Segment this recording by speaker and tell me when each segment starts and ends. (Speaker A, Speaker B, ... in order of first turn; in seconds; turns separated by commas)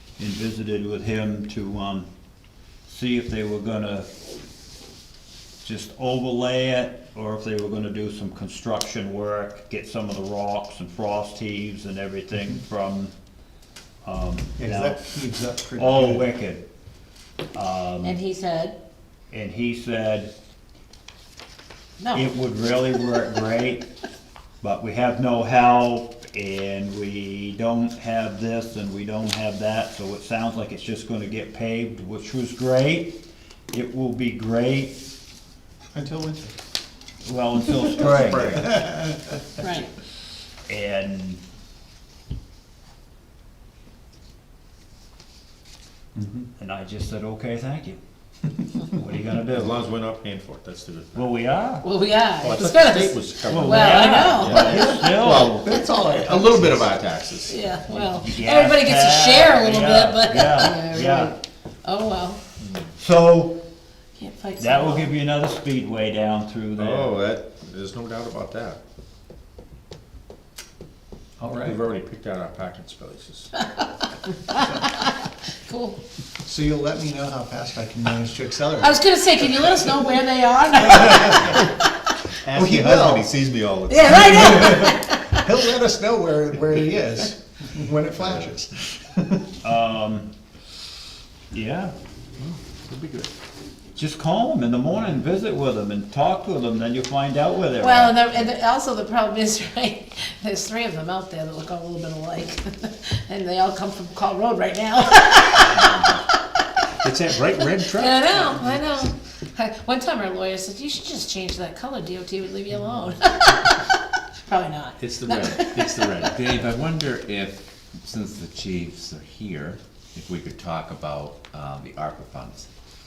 Speaker A: 0.2-2.1, Speaker A: 2.9-4.1, Speaker A: 5.6-13.1, Speaker A: 14.0-15.0, Speaker B: 14.6-16.3, Speaker A: 15.8-16.7, Speaker A: 17.5-18.2, Speaker C: 18.0-18.8, Speaker A: 19.3-20.3, Speaker C: 22.0-22.3, Speaker A: 22.1-23.9, Speaker A: 24.6-33.2, Speaker A: 33.7-35.0, Speaker B: 35.9-36.6, Speaker A: 37.2-38.8, Speaker D: 38.0-38.8, Speaker B: 38.5-39.2, Speaker C: 39.6-39.9, Speaker A: 40.7-41.4, Speaker B: 46.1-46.5, Speaker A: 46.6-48.0, Speaker A: 48.8-49.7, Speaker D: 49.5-51.3, Speaker A: 51.1-51.9, Speaker C: 51.8-55.0, Speaker D: 52.2-55.6, Speaker A: 53.5-55.7, Speaker B: 54.5-56.9, Speaker D: 56.2-57.6, Speaker C: 57.5-62.4, Speaker A: 57.9-61.4, Speaker D: 62.6-62.9, Speaker A: 63.0-63.6, Speaker C: 64.2-65.1, Speaker A: 64.6-67.1, Speaker D: 66.8-68.8, Speaker B: 71.4-71.8, Speaker D: 71.6-73.5, Speaker C: 74.5-76.0, Speaker B: 76.5-79.9, Speaker C: 78.8-81.6, Speaker B: 80.8-81.4, Speaker D: 82.4-84.3, Speaker B: 82.5-83.5, Speaker C: 83.9-85.5, Speaker B: 84.2-89.5, Speaker D: 88.2-88.5, Speaker A: 89.6-90.3, Speaker A: 91.5-91.9, Speaker D: 92.4-93.3, Speaker A: 94.0-98.5, Speaker C: 97.8-106.0, Speaker D: 105.6-106.2, Speaker D: 107.0-108.8, Speaker C: 107.8-116.3, Speaker D: 115.0-116.5, Speaker E: 116.3-122.7